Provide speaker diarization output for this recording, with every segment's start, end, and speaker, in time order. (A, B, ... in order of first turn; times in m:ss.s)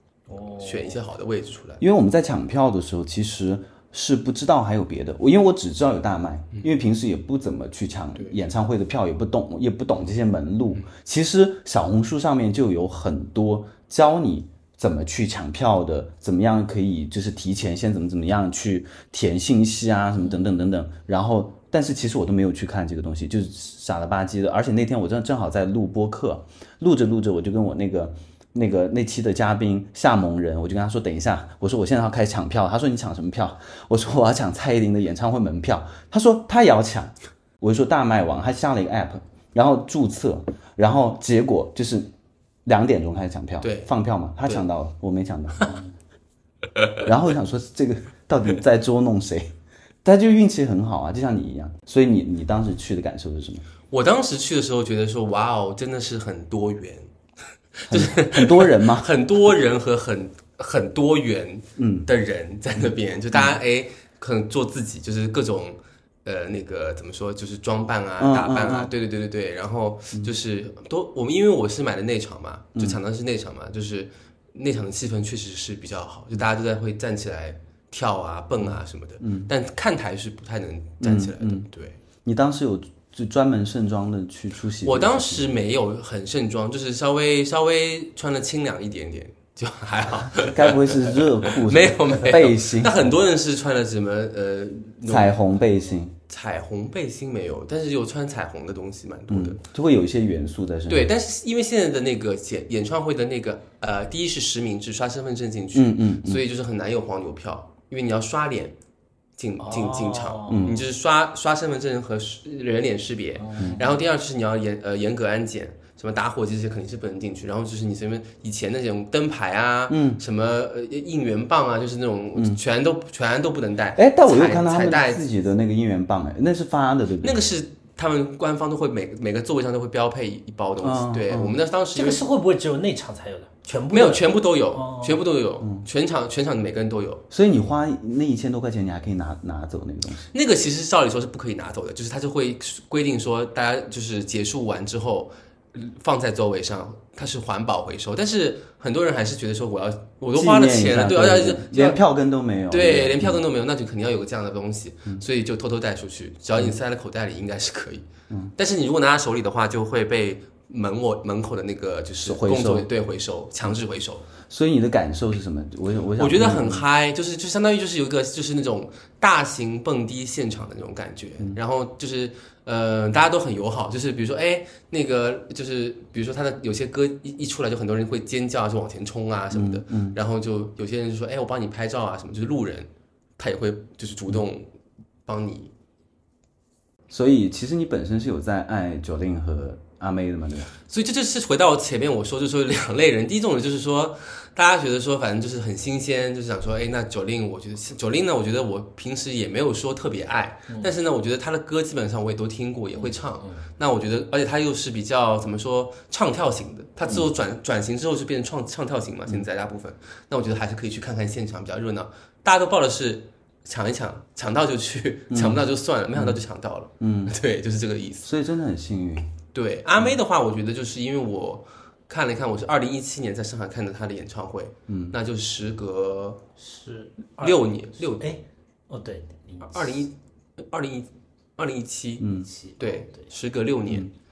0:00.3-0:01.0 A
0:00.6-0:01.8 B
0:01.8-0:42.1 C
0:42.7-0:45.8 C
0:43.6-0:43.9 B
0:47.0-0:49.5 C
0:50.0-0:53.6 C
0:53.9-0:57.1 B
0:57.8-1:22.0 B
0:57.9-0:59.1 C
1:01.8-1:02.1 C
1:08.2-1:08.9 C
1:12.8-1:13.0 C
1:18.6-1:19.5 C
1:21.0-1:21.7 C
1:22.2-1:25.5 C
1:24.8-1:35.4 B
1:30.3-1:33.2 C
1:35.1-1:36.1 C
1:36.3-1:39.6 B
1:39.3-1:41.1 C
1:40.9-1:48.8 B
1:45.7-1:46.4 C
1:49.4-2:05.2 B
1:49.6-1:50.7 A
1:50.5-1:50.9 C
1:53.4-1:54.0 A
1:59.9-2:00.2 C
2:02.4-2:02.6 C
2:04.0-2:07.4 C
2:07.2-2:12.2 B
2:10.8-2:11.6 C
2:12.0-2:15.2 A
2:13.9-2:17.2 B
2:17.3-2:20.3 C
2:20.3-2:32.0 B
2:30.3-2:33.4 C
2:32.7-2:44.3 B
2:42.2-2:42.9 C
2:44.5-2:46.9 C
2:46.2-3:04.7 B
2:59.5-3:00.2 C
3:05.3-3:05.7 B
3:07.1-3:10.7 C
3:10.9-3:38.3 B
3:23.0-3:23.6 A
3:35.3-3:35.6 C
3:36.2-3:36.4 C
3:37.0-3:37.4 C
3:38.2-3:39.3 C
3:39.5-3:46.4 B
3:44.9-3:45.2 C
3:46.6-3:50.0 A
3:47.4-3:48.3 B
3:49.7-3:54.1 B
3:52.2-3:52.5 C
3:52.5-3:53.3 A